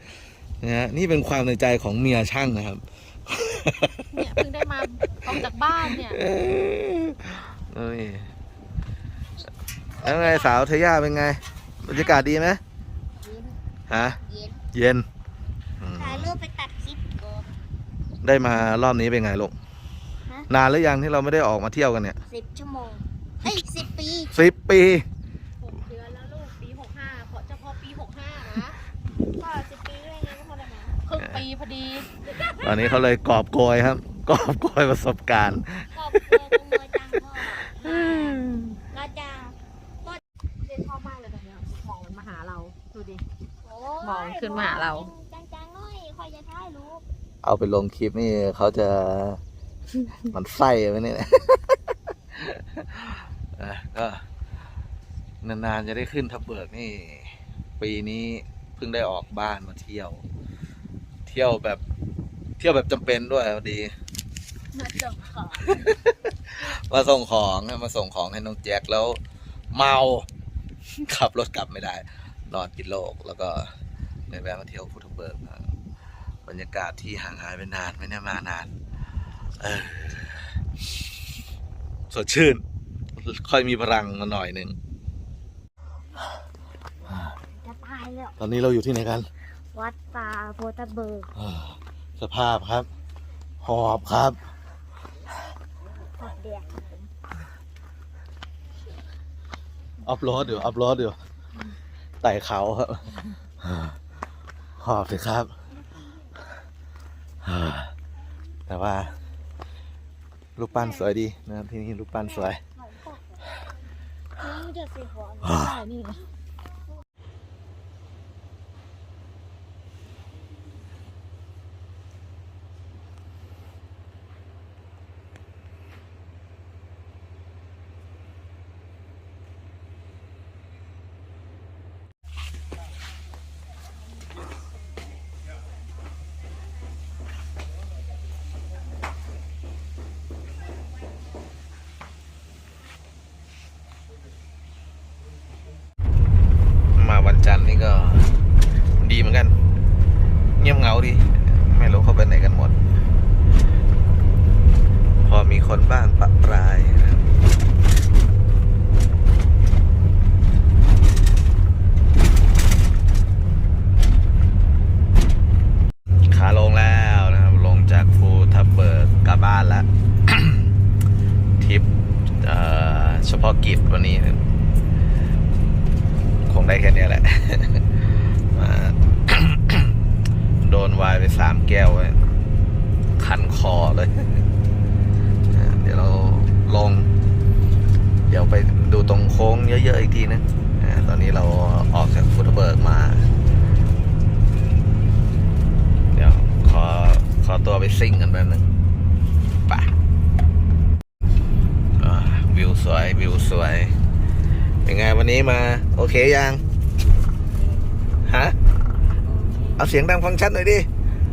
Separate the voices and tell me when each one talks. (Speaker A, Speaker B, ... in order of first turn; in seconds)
Speaker A: 0.6-4.3, 5.9-8.3, 10.0-12.6, 13.9-14.2, 14.7-15.1, 15.8-16.3, 18.2-19.5, 20.5-22.2, 24.3-25.1, 31.2-31.4, 32.4-35.9, 47.4-49.4, 50.2-51.8, 52.3-54.2, 55.4-60.2, 61.2-61.8, 62.6-63.9, 65.6-69.2, 69.7-70.2, 71.0-73.7, 74.3-75.7, 76.5-78.7, 79.6-80.6, 82.1-82.6, 83.2-84.8, 88.4-89.3, 91.3-92.9, 93.6-94.4, 100.0-101.2, 102.2-103.1, 103.6-103.9, 104.8-105.5, 107.4-107.9, 108.7-109.1, 110.5-112.6, 115.4-115.7, 146.9-148.4, 149.0-149.6, 150.6-152.8, 155.2-157.3, 166.3-170.7, 171.6-171.9, 172.4-174.4, 176.4-177.9, 178.5-179.9, 180.6-182.2, 183.2-184.2, 185.5-187.1, 188.3-193.3, 196.1-198.7, 202.0-203.9, 204.8-206.6, 208.2-208.6, 209.8-210.9
Speaker B: 4.1-6.2, 25.6-28.8, 31.0-32.7, 37.8-38.8, 40.6-43.2, 44.0-45.1, 64.7-65.8, 115.4-116.2, 209.3-209.7
Speaker C: 10.0-10.5, 13.2-13.6, 14.2-14.6, 15.9-17.5, 22.3-24.4, 29.4-31.0, 35.9-40.2, 43.6-47.0, 87.6-88.4, 89.7-91.3, 96.2-97.0, 110.7-111.1, 112.2-113.2, 114.4-115.6